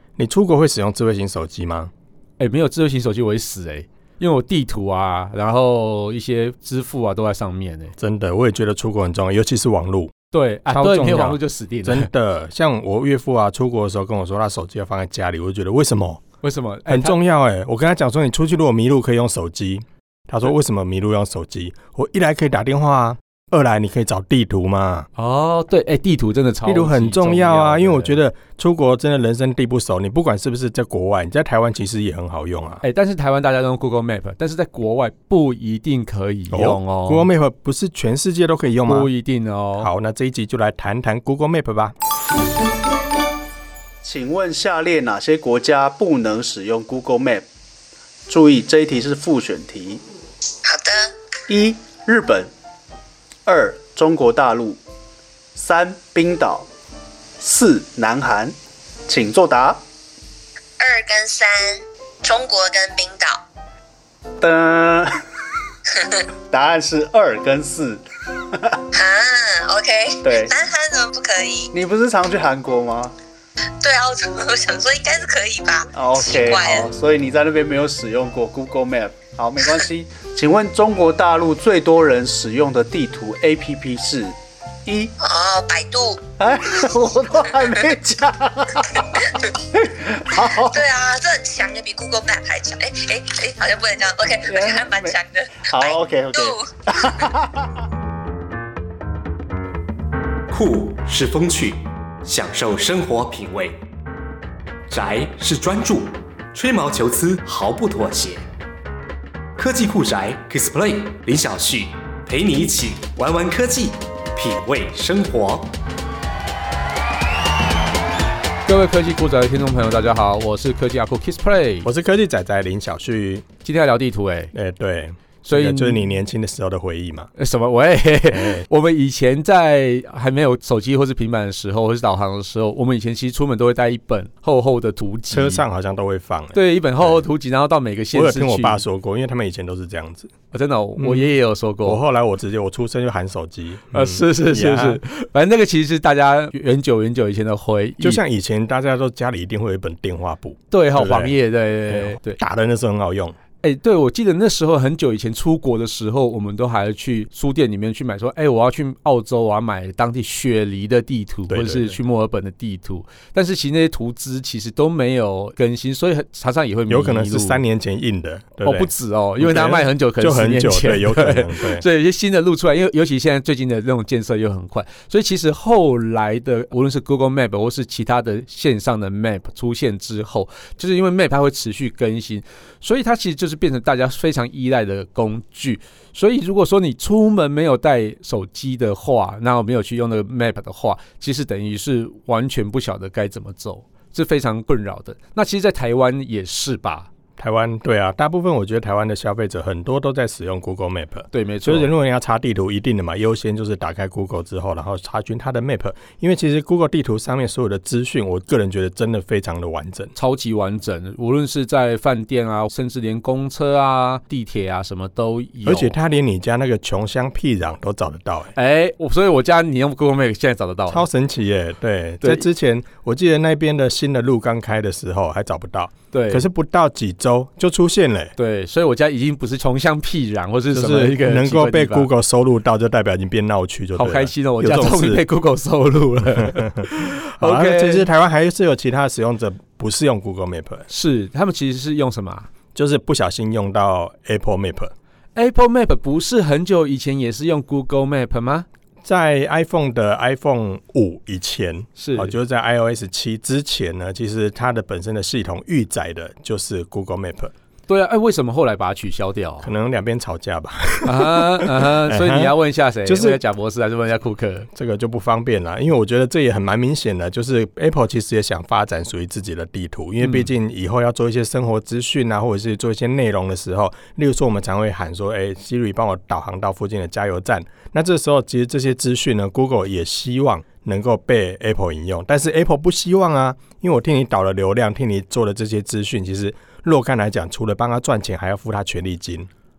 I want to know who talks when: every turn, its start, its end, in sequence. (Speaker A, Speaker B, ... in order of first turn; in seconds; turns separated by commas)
Speaker A: 0.2-1.9, Speaker B: 2.4-8.0, Speaker A: 8.0-10.1, Speaker B: 10.3-12.1, Speaker A: 10.7-16.2, Speaker B: 16.4-17.2, Speaker A: 16.9-25.1, Speaker B: 25.2-28.2, Speaker A: 26.6-32.8, Speaker B: 32.8-37.3, Speaker A: 36.5-39.1, Speaker B: 38.9-39.9, Speaker A: 39.8-42.0, Speaker C: 44.0-47.5, Speaker C: 48.3-50.0, Speaker D: 50.6-51.1, Speaker C: 51.5-52.5, Speaker C: 53.5-54.8, Speaker C: 55.5-56.7, Speaker C: 57.4-58.6, Speaker C: 59.1-59.8, Speaker D: 60.8-63.4, Speaker C: 64.4-65.2, Speaker D: 66.0-66.2, Speaker C: 66.5-68.0, Speaker C: 68.5-68.8, Speaker D: 68.9-71.7, Speaker C: 70.2-70.5, Speaker C: 71.7-73.2, Speaker D: 73.8-76.9, Speaker C: 76.0-84.3, Speaker C: 84.8-85.1, Speaker D: 85.2-86.2, Speaker C: 86.4-90.8, Speaker D: 89.0-89.4, Speaker D: 90.6-97.2, Speaker C: 94.5-95.2, Speaker C: 95.7-97.7, Speaker E: 100.5-103.8, Speaker E: 104.9-108.4, Speaker E: 109.6-115.7, Speaker B: 118.7-121.9, Speaker A: 121.8-123.5, Speaker B: 123.6-124.5, Speaker A: 124.5-127.3, Speaker B: 125.5-126.0, Speaker B: 127.4-135.6, Speaker A: 128.3-128.7, Speaker A: 135.3-137.2, Speaker B: 136.5-138.8, Speaker A: 138.1-140.3, Speaker B: 140.5-142.0, Speaker A: 141.0-141.3, Speaker A: 141.8-145.0, Speaker B: 143.9-148.2, Speaker A: 148.0-151.4, Speaker B: 150.7-152.4, Speaker A: 151.9-153.4, Speaker B: 153.6-167.6, Speaker A: 161.5-162.0, Speaker A: 166.9-171.8, Speaker B: 168.6-197.1, Speaker A: 197.4-210.1, Speaker B: 201.3-201.9, Speaker B: 210.2-215.9, Speaker A: 215.7-218.5, Speaker B: 218.6-221.0, Speaker A: 220.9-228.3, Speaker B: 226.1-226.5, Speaker B: 228.4-232.1, Speaker A: 230.7-235.2, Speaker B: 233.9-238.1, Speaker A: 236.4-240.9, Speaker B: 240.9-242.5, Speaker A: 242.8-244.9, Speaker B: 245.3-248.7, Speaker A: 249.0-257.5, Speaker B: 252.0-252.3, Speaker B: 257.9-259.7, Speaker A: 259.6-263.4, Speaker B: 261.0-264.7, Speaker A: 264.7-289.5, Speaker B: 270.2-270.5